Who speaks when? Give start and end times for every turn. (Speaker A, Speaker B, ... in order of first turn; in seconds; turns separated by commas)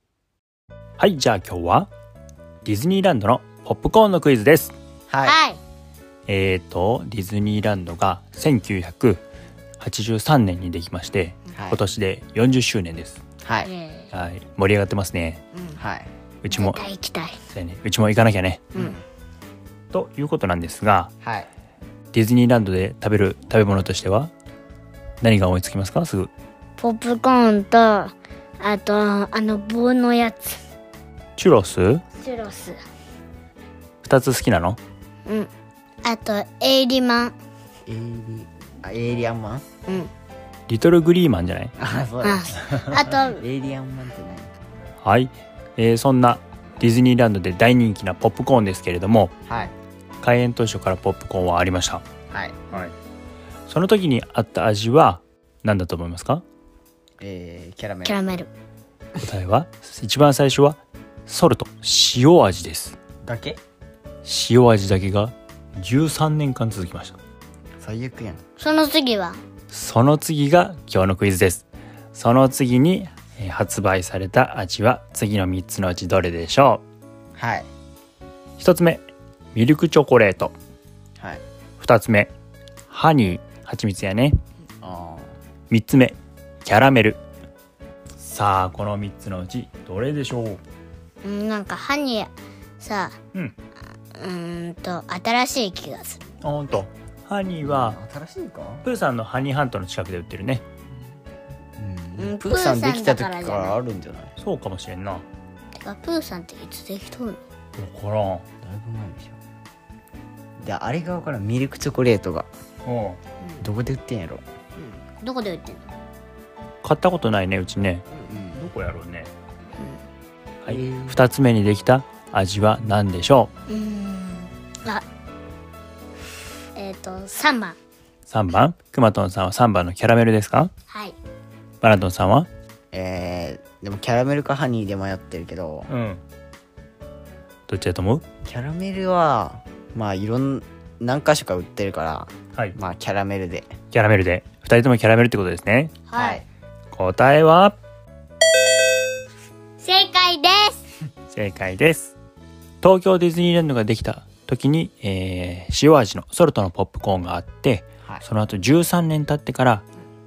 Speaker A: 1.0-1.9, Speaker A: 2.6-4.7, Speaker B: 5.1-5.4, Speaker C: 5.2-5.6, Speaker A: 6.3-9.2, Speaker A: 9.8-13.2, Speaker B: 11.5-11.8, Speaker B: 13.4-13.7, Speaker C: 13.6-14.1, Speaker A: 14.1-15.4, Speaker B: 15.7-16.1, Speaker A: 16.4-16.8, Speaker C: 16.5-17.4, Speaker A: 17.5-18.7, Speaker B: 18.7-19.0, Speaker A: 19.9-21.1, Speaker B: 21.2-21.5, Speaker A: 22.1-24.3, Speaker A: 25.2-26.3, Speaker C: 26.8-30.6, Speaker A: 31.4-32.0, Speaker C: 32.1-32.8, Speaker A: 34.0-34.8, Speaker C: 36.0-37.3, Speaker B: 37.9-39.8, Speaker A: 40.7-41.7, Speaker B: 41.8-44.5, Speaker C: 42.2-43.4, Speaker A: 45.0-49.3, Speaker B: 49.5-49.7, Speaker A: 50.2-52.0, Speaker B: 52.3-52.6, Speaker A: 53.7-56.4, Speaker B: 57.2-58.2, Speaker C: 58.0-58.5, Speaker A: 59.2-63.0, Speaker B: 63.2-63.6, Speaker A: 64.2-67.2, Speaker B: 67.8-68.4, Speaker C: 68.6-69.4, Speaker A: 69.7-76.8, Speaker B: 77.3-77.7, Speaker A: 78.6-80.5, Speaker A: 81.8-82.3, Speaker A: 82.9-84.4, Speaker B: 84.8-85.3, Speaker A: 85.7-87.2, Speaker A: 88.2-90.6, Speaker C: 91.2-93.2, Speaker C: 94.2-96.2, Speaker A: 96.4-98.0, Speaker B: 97.6-98.8, Speaker A: 98.8-100.6, Speaker B: 101.8-104.3, Speaker C: 102.2-103.8, Speaker A: 104.4-105.2, Speaker C: 105.8-107.4, Speaker A: 107.7-108.5, Speaker B: 108.6-109.4, Speaker B: 110.6-112.5, Speaker A: 112.8-113.2, Speaker B: 113.6-114.4, Speaker C: 114.8-115.9, Speaker A: 116.8-119.3, Speaker B: 118.3-118.7, Speaker A: 120.6-123.5, Speaker B: 120.7-121.2, Speaker C: 123.7-125.0, Speaker C: 126.8-127.8, Speaker A: 128.3-130.7, Speaker C: 130.9-131.2, Speaker A: 131.8-132.5, Speaker B: 132.9-135.9, Speaker A: 135.9-136.2, Speaker A: 137.7-138.2, Speaker B: 138.4-143.7, Speaker A: 143.9-145.9, Speaker C: 146.1-146.4, Speaker B: 146.1-146.5, Speaker A: 146.9-147.8, Speaker C: 149.8-150.8, Speaker A: 151.3-152.1, Speaker A: 152.8-159.8